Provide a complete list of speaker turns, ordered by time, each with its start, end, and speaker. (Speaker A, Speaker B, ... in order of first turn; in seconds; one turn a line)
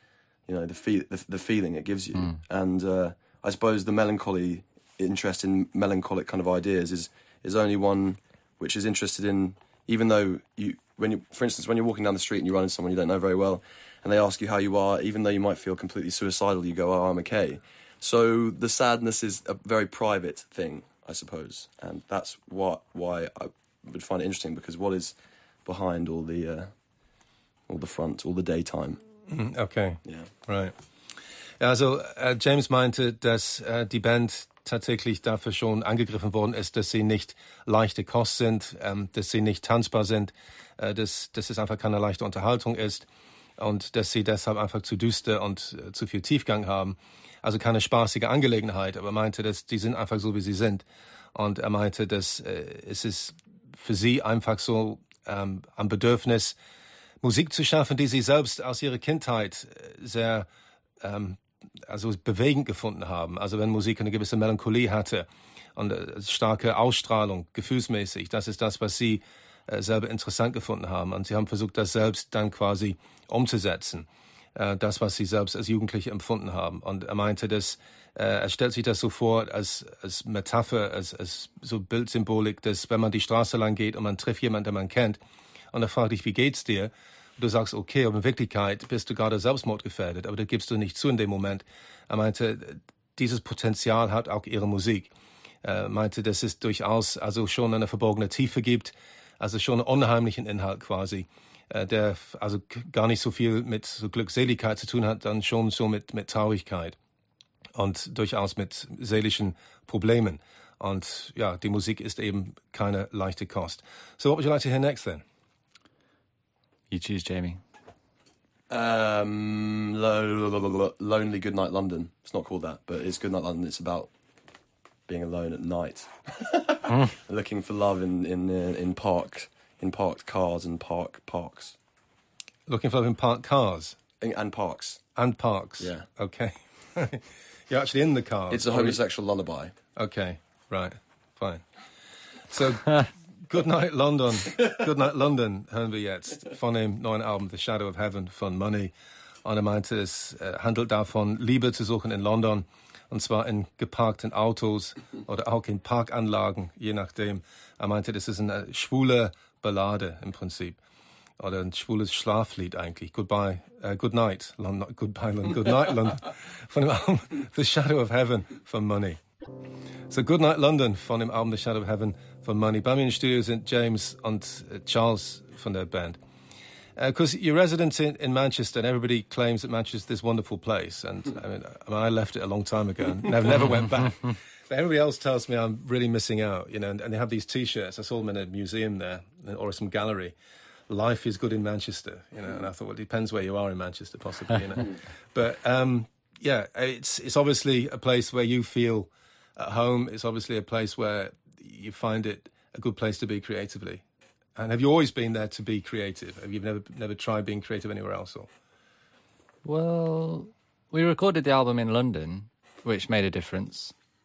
Speaker A: 0.5-26.7
Speaker B: 2.1-2.4
Speaker A: 27.7-29.0
Speaker C: 29.3-30.7
Speaker C: 31.6-43.0
Speaker C: 43.6-56.5
Speaker C: 57.2-60.5
Speaker C: 61.0-85.2
Speaker C: 85.7-95.1
Speaker C: 95.6-107.0
Speaker C: 107.8-115.2
Speaker B: 116.9-117.6
Speaker A: 118.7-124.1
Speaker A: 125.1-131.8
Speaker C: 132.7-134.0
Speaker A: 134.2-135.0
Speaker C: 135.2-139.0
Speaker A: 135.8-136.1
Speaker A: 138.5-139.7
Speaker C: 139.9-141.6
Speaker C: 142.5-148.9
Speaker C: 149.4-160.8
Speaker C: 161.4-169.2
Speaker C: 170.1-176.2
Speaker C: 176.9-190.3
Speaker C: 190.9-204.0
Speaker C: 204.6-208.5
Speaker B: 209.6-213.9